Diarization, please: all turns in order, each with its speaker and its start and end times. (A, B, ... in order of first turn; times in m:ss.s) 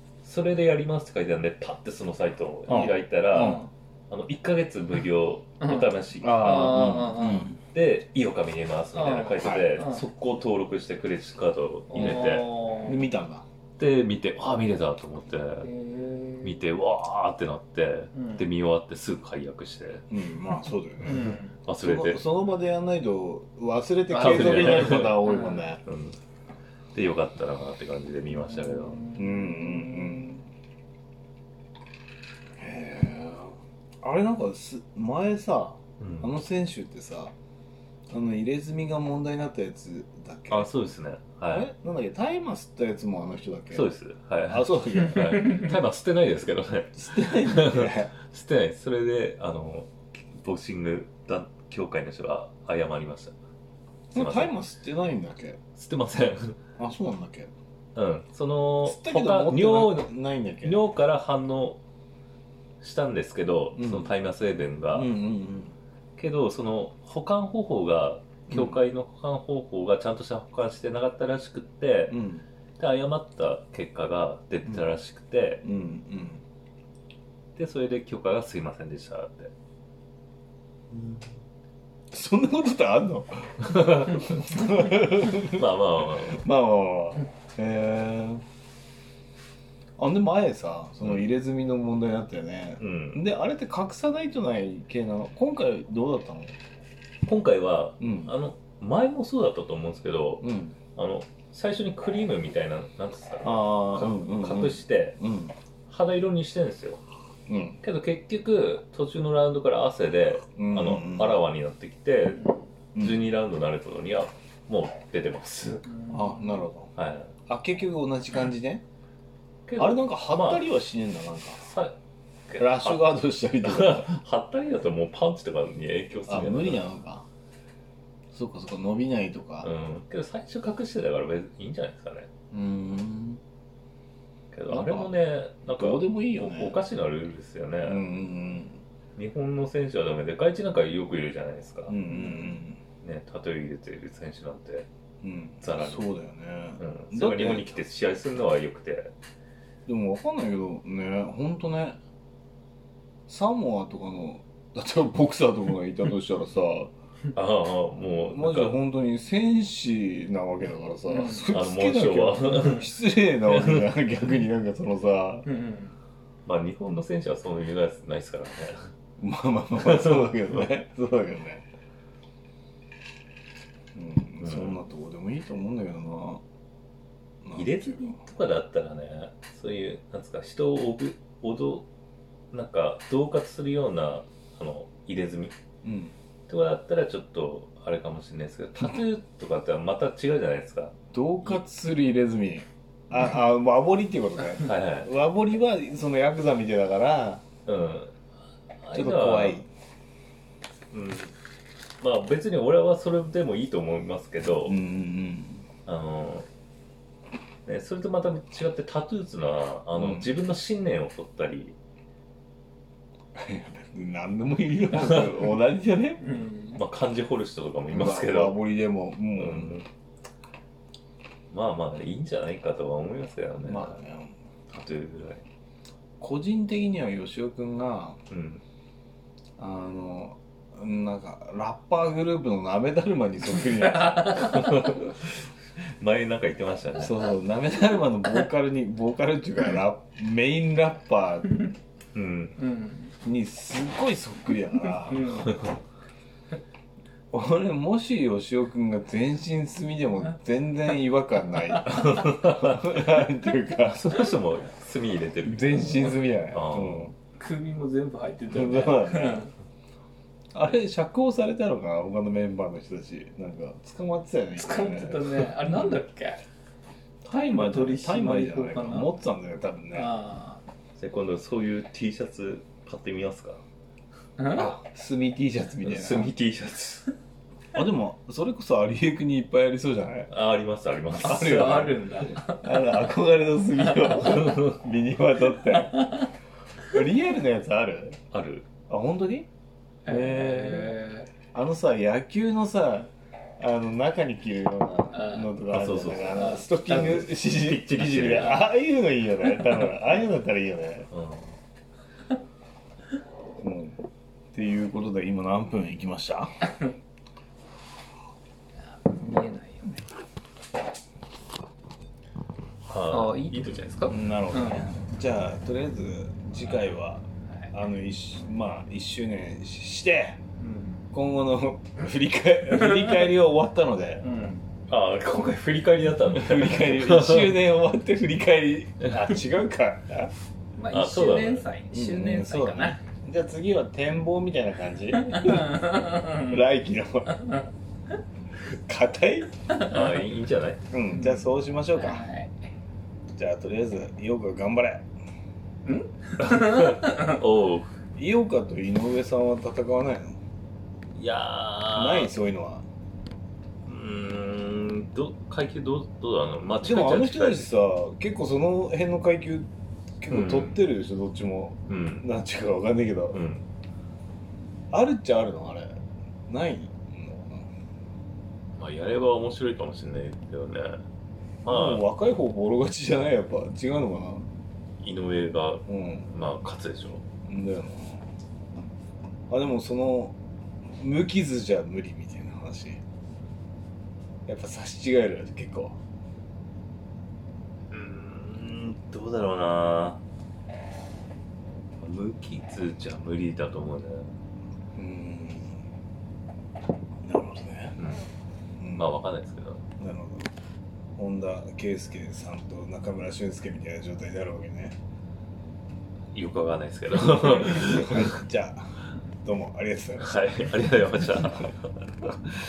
0:00.2-0:07.0 A
0:02.7-0:03.6 B
0:02.7-0:03.7 C
0:05.6-0:07.5 C
0:06.2-0:07.6 B
0:07.7-0:12.5 A
0:08.9-0:10.0 C
0:09.4-0:09.7 B
0:11.9-0:13.0 C
0:12.0-0:12.3 B
0:12.8-0:13.4 B
0:13.8-0:15.7 A
0:15.6-0:16.6 C
0:16.4-0:20.0 A
0:18.1-0:18.4 C
0:20.1-0:25.8 B
0:21.0-0:21.6 C
0:21.1-0:22.2 A
0:24.1-0:25.3 A
0:24.1-0:25.7 C
0:25.8-0:26.2 A
0:26.9-0:29.0 A
0:28.3-0:30.4 C
0:29.2-0:30.4 B
0:32.6-0:37.3 B
0:36.0-0:36.3 A
0:38.1-0:40.7 B
0:40.5-0:41.7 A
0:41.5-0:43.9 B
0:43.7-0:53.3 A
0:44.5-0:45.6 B
0:46.9-0:48.1 B
0:54.1-0:55.6 B
0:54.1-0:54.5 A
0:55.8-0:56.6 A
0:56.8-0:57.5 B
0:57.9-1:00.1 A
0:58.8-1:00.8 B
1:00.6-1:01.8 A
1:02.8-1:05.1 A
1:03.8-1:04.1 B
1:04.9-1:05.8 B
1:06.2-1:12.2 A
1:08.5-1:08.8 B
1:12.1-1:12.4 B
1:12.8-1:15.6 A
1:15.6-1:16.4 B
1:17.6-1:19.5 A
1:20.9-1:21.2 B
1:22.1-1:28.4 B
1:23.6-1:26.4 A
1:30.0-1:36.6 B
1:32.8-1:33.2 A
1:37.2-1:45.2 A
1:38.0-1:38.3 B
1:40.4-1:40.7 B
1:43.4-1:45.5 B
1:45.9-1:47.0 A
1:47.5-1:47.8 B
1:47.8-1:52.4 A
1:50.6-1:51.4 B
1:52.4-1:52.6 C
1:52.9-1:53.2 B
1:53.0-1:55.9 A
1:55.9-1:56.6 C
1:56.1-1:56.9 B
1:57.0-1:57.3 A
1:57.5-1:58.8 B
1:59.6-2:00.7 A
1:59.8-2:01.6 B
2:01.6-2:02.0 A
2:02.5-2:03.1 A
2:02.6-2:04.1 B
2:03.6-2:06.8 A
2:06.3-2:07.2 B
2:08.3-2:09.7 B
2:09.6-2:12.3 A
2:12.5-2:13.4 B
2:14.5-2:18.0 A
2:14.7-2:15.1 B
2:15.7-2:16.8 B
2:17.8-2:18.8 B
2:19.2-2:22.5 A
2:21.9-2:22.8 B
2:23.0-2:24.9 A
2:25.2-2:27.8 B
2:25.6-2:26.1 A
2:26.8-2:29.1 A
2:29.8-2:32.0 B
2:33.3-2:36.9 B
2:37.3-2:38.8 A
2:38.3-2:45.4 B
2:41.1-2:41.4 C
2:41.5-2:42.9 A
2:43.4-2:43.9 A
2:45.4-2:45.9 C
2:46.4-2:48.9 A
2:49.2-2:51.6 B
2:49.8-2:50.5 A
2:53.9-2:56.4 B
2:54.4-2:54.8 A
2:57.4-2:58.2 B
2:57.5-3:01.8 A
3:02.5-3:05.6 A
3:05.8-3:06.1 B
3:06.5-3:11.6 A
3:11.1-3:17.4 B
3:14.6-3:15.1 A
3:17.6-3:18.2 A
3:18.8-3:19.6 A
3:18.9-3:19.7 B
3:20.9-3:21.3 A
3:22.0-3:24.8 A
3:24.6-3:25.6 B
3:25.8-3:26.5 A
3:27.6-3:31.7 A
3:30.0-3:30.3 B
3:33.3-3:36.4 B
3:34.9-3:35.3 A
3:36.2-3:36.8 C
3:36.8-3:38.6 A
3:37.9-3:39.8 B
3:39.4-3:39.8 A
3:41.5-3:44.0 A
3:43.6-3:44.3 B
3:44.7-3:45.4 A
3:46.2-3:48.2 B
3:48.3-3:48.6 A
3:49.6-3:55.0 B
3:53.7-3:54.7 C
3:54.3-3:57.2 A
3:57.0-4:01.6 B
4:02.1-4:02.6 A
4:02.6-4:03.1 C
4:03.2-4:05.4 B
4:05.1-4:05.5 C
4:05.3-4:05.8 A
4:07.3-4:14.1 B
4:11.8-4:13.0 A
4:13.8-4:17.1 A
4:15.4-4:17.1 B
4:17.4-4:19.5 C
4:18.5-4:19.4 B
4:20.5-4:25.4 B
4:24.6-4:26.4 C
4:25.7-4:26.0 A
4:27.2-4:30.1 B
4:27.3-4:29.1 C
4:29.9-4:30.6 C
4:31.0-4:33.6 A
4:34.4-4:34.7 C
4:34.5-4:36.3 B
4:35.8-4:37.0 A
4:37.7-4:40.3 B
4:40.3-4:42.0 A
4:41.2-4:46.2 B
4:41.2-4:42.6 C
4:44.2-4:44.8 A
4:45.8-4:46.3 C
4:46.9-4:48.2 B
4:48.3-4:48.7 A
4:48.9-4:49.5 B
4:50.0-4:50.9 B
4:50.0-4:51.3 C
4:51.5-5:01.1 B
4:55.1-4:55.5 C
4:55.7-4:58.6 A
4:56.2-4:56.7 C
5:01.1-5:01.5 A
5:03.6-5:04.0 B
5:04.5-5:06.5 B
5:08.8-5:10.0 C
5:12.9-5:14.0 A
5:13.1-5:15.0 C
5:14.1-5:20.4 B
5:20.6-5:21.0 C
5:21.1-5:24.2 B
5:22.7-5:23.1 C
5:24.2-5:24.6 C
5:24.9-5:27.6 A
5:26.3-5:30.3 B
5:30.8-5:33.0 C
5:30.9-5:31.7 A
5:31.9-5:37.3 B
5:35.2-5:36.5 C
5:37.3-5:37.7 C
5:38.6-5:39.5 B
5:39.8-5:40.8 A
5:40.9-5:42.2 B
5:41.1-5:41.4 C
5:41.9-5:42.5 C
5:43.3-5:45.1 B
5:45.8-5:47.4 C
5:46.4-5:47.9 A
5:48.1-5:50.4 B
5:51.2-5:52.3 A
5:51.9-5:52.8 B
5:53.8-5:57.6 A
5:56.8-6:03.4 B
6:00.3-6:00.8 A
6:01.9-6:02.2 A
6:03.3-6:03.6 A
6:04.9-6:07.7 B
6:08.8-6:11.0 A
6:11.6-6:12.0 A
6:11.7-6:14.5 B
6:15.0-6:17.2 A
6:15.9-6:16.3 B
6:17.4-6:18.3 B
6:19.5-6:20.4 B
6:20.9-6:23.0 B
6:24.4-6:26.0 B
6:27.9-6:30.2 A
6:32.0-6:34.3 A
6:34.9-6:35.8 B
6:37.2-6:38.0 B
6:38.0-6:38.2 A
6:38.8-6:39.1 B
6:38.9-6:39.8 A
6:40.0-6:40.5 B
6:41.2-6:45.0 B
6:46.3-6:48.4 A
6:47.1-6:48.9 B
6:49.4-6:51.6 B
6:50.2-6:52.3 A